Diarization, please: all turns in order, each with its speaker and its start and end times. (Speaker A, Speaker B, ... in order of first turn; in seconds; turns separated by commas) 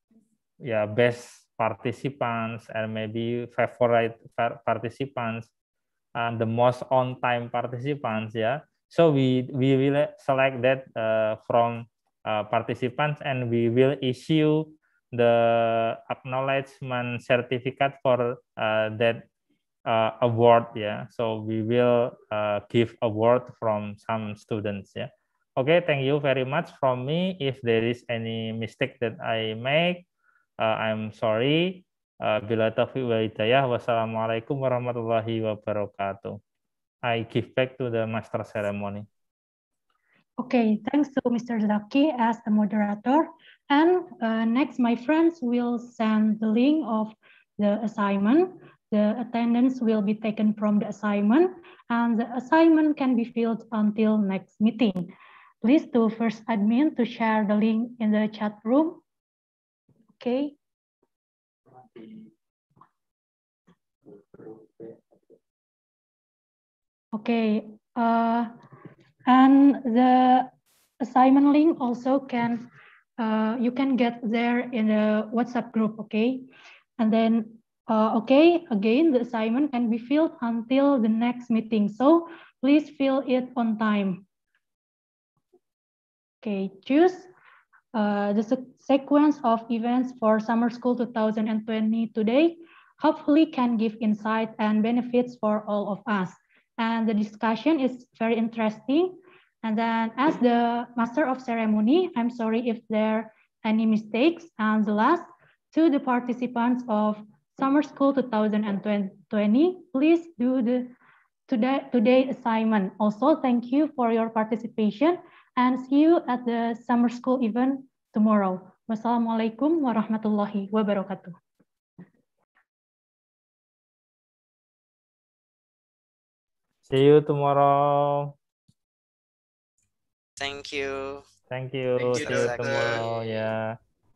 Speaker A: 0.6-5.5, Speaker A: 6.2-19.3, Speaker A: 19.9-30.1, Speaker A: 30.6-36.4, Speaker A: 37.0-39.0, Speaker B: 40.4-55.1, Speaker B: 55.6-59.0, Speaker B: 60.2-60.5, Speaker B: 67.1-68.5, Speaker B: 69.3-70.5, Speaker B: 71.0-72.6, Speaker B: 73.2-76.5, Speaker B: 77.0-84.2, Speaker B: 86.4-87.3, Speaker B: 87.9-110.9, Speaker B: 111.5-121.3, Speaker A: 126.9-128.3, Speaker C: 130.4-131.2, Speaker A: 131.5-133.8, Speaker C: 132.0-133.5